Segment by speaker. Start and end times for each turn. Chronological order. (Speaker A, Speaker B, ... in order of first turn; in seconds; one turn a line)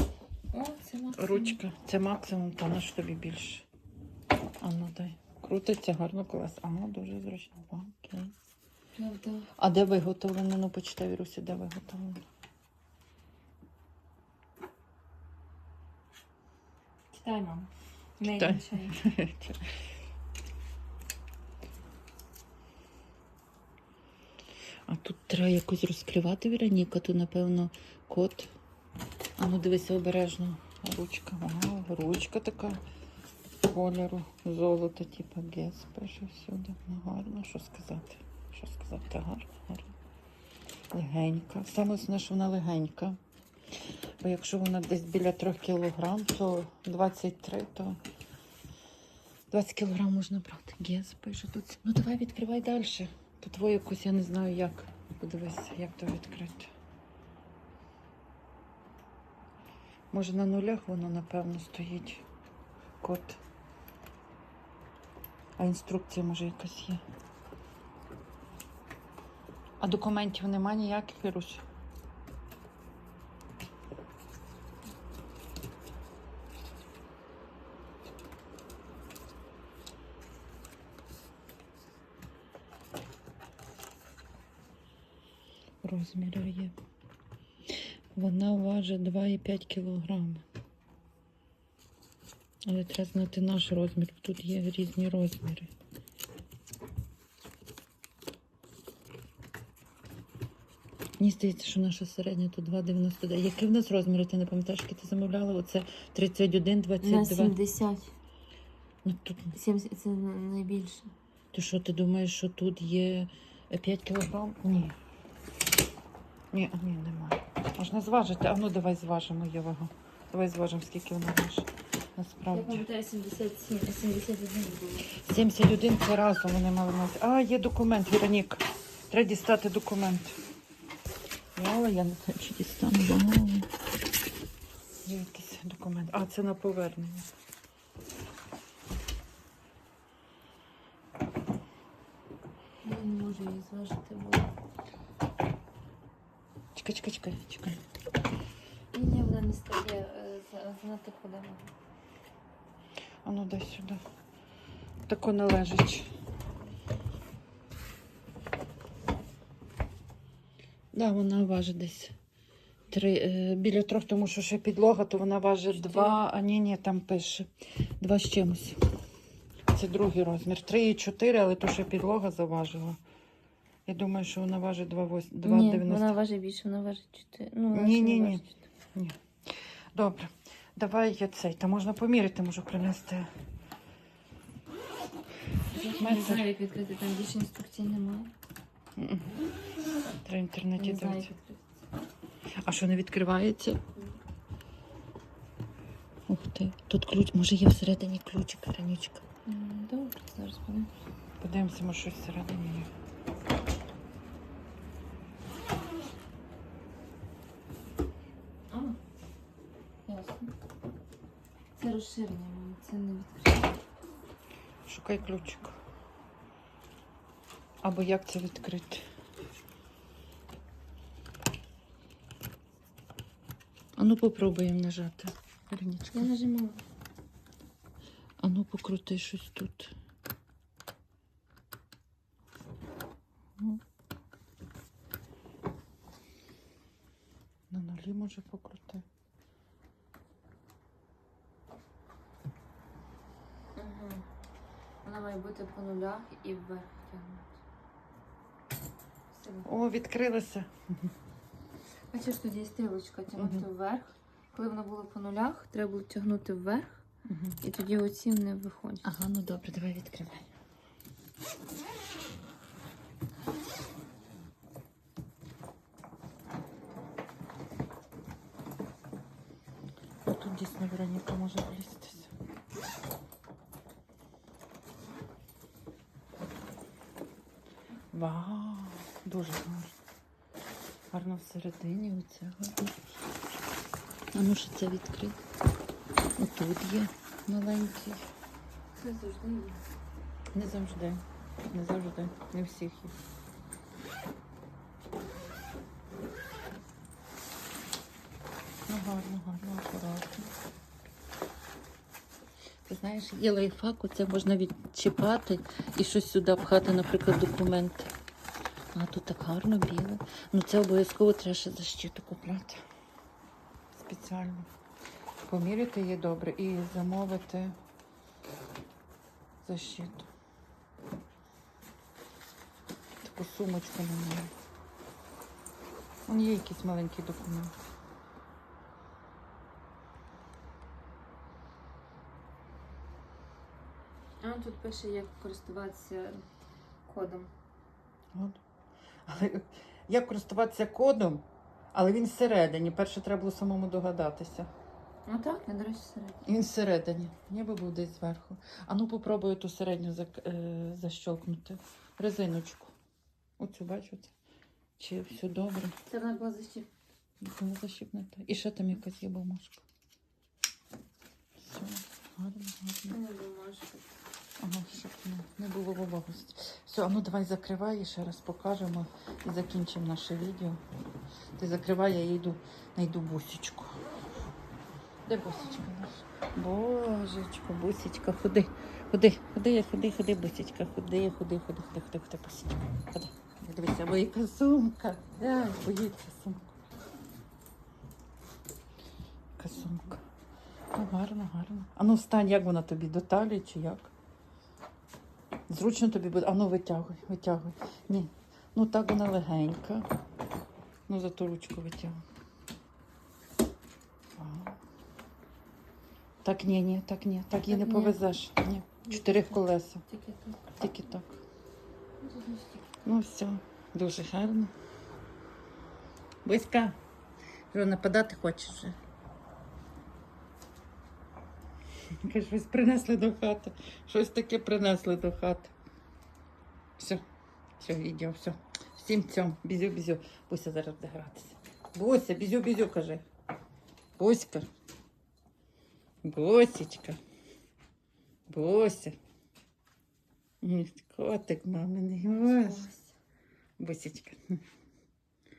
Speaker A: 0.5-1.6
Speaker B: 1.1-3.7
Speaker B: 4.6-8.3
Speaker A: 8.9-9.5
Speaker B: 9.6-12.2
Speaker A: 17.1-19.0
Speaker B: 18.2-19.6
Speaker B: 24.9-28.5
Speaker B: 29.4-32.8
Speaker B: 33.7-39.9
Speaker B: 40.9-43.2
Speaker B: 44.2-48.0
Speaker B: 49.5-56.7
Speaker B: 60.1-62.2
Speaker B: 63.0-63.4
Speaker B: 65.6-67.0
Speaker B: 69.8-71.6
Speaker B: 85.8-86.7
Speaker B: 88.1-90.4
Speaker B: 92.7-95.7
Speaker B: 101.2-107.5
Speaker A: 107.0-108.1
Speaker B: 109.0-109.5
Speaker A: 109.5-111.1
Speaker B: 111.5-115.0
Speaker B: 116.5-122.8
Speaker A: 122.5-125.1
Speaker B: 125.1-130.4
Speaker B: 131.6-133.7
Speaker B: 135.0-137.3
Speaker A: 142.8-144.5
Speaker B: 146.7-147.8
Speaker A: 148.9-151.7
Speaker B: 153.2-154.0
Speaker B: 155.1-156.1
Speaker B: 160.9-162.1
Speaker B: 162.9-168.8
Speaker A: 165.7-166.2
Speaker B: 169.7-173.0
Speaker B: 173.8-176.2
Speaker A: 175.4-178.6
Speaker B: 177.7-178.4
Speaker B: 178.9-183.3
Speaker A: 185.7-188.3
Speaker B: 186.0-186.4
Speaker B: 189.0-189.4
Speaker B: 190.2-191.3
Speaker A: 190.8-191.8
Speaker B: 192.6-193.8
Speaker B: 196.3-199.2
Speaker A: 199.4-200.9
Speaker B: 201.4-202.9
Speaker A: 208.7-209.0
Speaker A: 210.1-210.5
Speaker A: 211.8-213.8
Speaker B: 214.8-215.7
Speaker B: 217.8-219.0
Speaker B: 224.0-226.3
Speaker A: 226.1-226.8
Speaker B: 228.4-229.9
Speaker B: 237.7-239.0
Speaker A: 243.7-244.2
Speaker A: 245.0-247.6
Speaker A: 249.3-249.7
Speaker B: 249.6-251.1
Speaker A: 252.1-257.0
Speaker B: 253.3-253.7
Speaker B: 257.3-257.6
Speaker A: 257.6-259.1
Speaker B: 259.0-260.5
Speaker B: 270.2-272.3
Speaker B: 278.1-280.0
Speaker B: 281.1-283.2
Speaker B: 284.3-285.4
Speaker B: 286.4-288.2
Speaker A: 288.9-289.8
Speaker B: 290.5-293.2
Speaker B: 298.9-300.5
Speaker B: 302.8-308.1
Speaker B: 308.9-312.8
Speaker B: 313.9-314.7
Speaker B: 315.5-317.8
Speaker B: 319.6-320.3
Speaker B: 323.2-324.5
Speaker B: 326.3-327.7
Speaker A: 334.4-336.4
Speaker A: 337.1-337.5
Speaker B: 338.3-338.6
Speaker B: 339.2-344.7
Speaker A: 345.2-346.4
Speaker B: 346.4-352.9
Speaker B: 353.6-354.3
Speaker B: 355.0-355.9
Speaker A: 356.1-356.9
Speaker B: 357.4-359.8
Speaker B: 361.6-363.2
Speaker A: 363.1-364.1
Speaker B: 364.6-370.8
Speaker B: 371.6-374.0
Speaker B: 375.3-386.8
Speaker B: 389.5-390.2
Speaker B: 390.9-394.1
Speaker B: 395.7-400.1
Speaker B: 401.1-402.2
Speaker B: 404.4-404.8
Speaker B: 406.4-410.1
Speaker A: 407.6-408.2
Speaker A: 409.1-410.6
Speaker B: 410.7-411.4
Speaker A: 412.2-412.9
Speaker B: 413.0-414.7
Speaker B: 416.4-417.0
Speaker B: 417.7-419.0
Speaker B: 422.2-425.7
Speaker B: 427.0-427.2
Speaker B: 427.8-433.2
Speaker B: 434.2-434.7
Speaker B: 436.2-437.2
Speaker B: 438.5-439.1
Speaker B: 440.6-442.9
Speaker A: 442.3-443.1
Speaker B: 443.8-444.6